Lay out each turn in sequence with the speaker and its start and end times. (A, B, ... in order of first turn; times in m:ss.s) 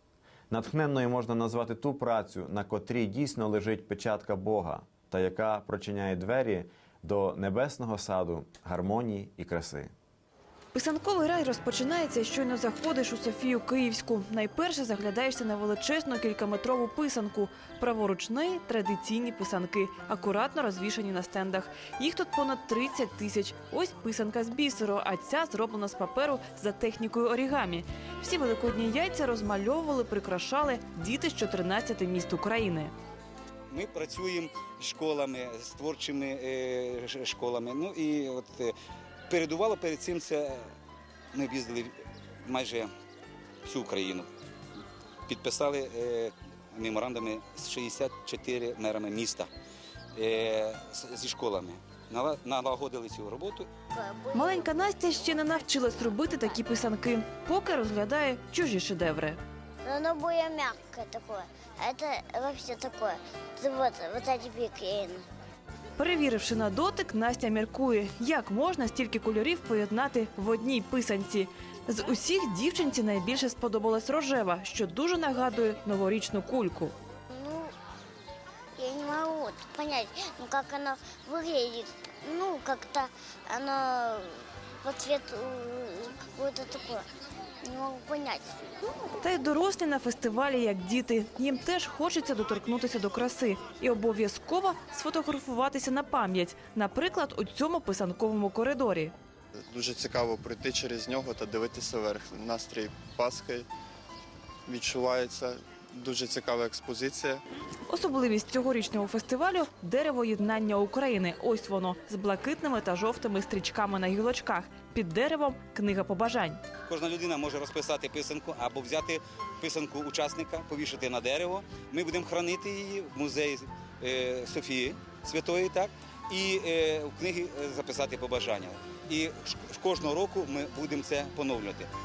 0:00.5-0:09.9 A
0:10.7-0:32.9 B
0:33.7-0:38.7 C
0:39.3-0:40.7 C
0:41.3-0:41.9 C
0:42.4-0:42.9 C
0:43.6-0:44.3 C
0:45.3-0:49.5 C
0:50.2-0:53.7 C
0:53.9-0:55.3 D
0:54.3-0:59.4 B
0:56.1-0:56.6 D
0:59.8-1:05.2 D
1:06.0-1:16.9 B
1:17.3-1:17.7 D
1:18.8-1:27.0 D
1:27.6-1:28.6 D
1:29.2-1:39.1 B
1:39.7-1:43.7 E
1:44.6-1:47.4 E
1:47.9-1:56.6 B
1:56.8-2:11.9 C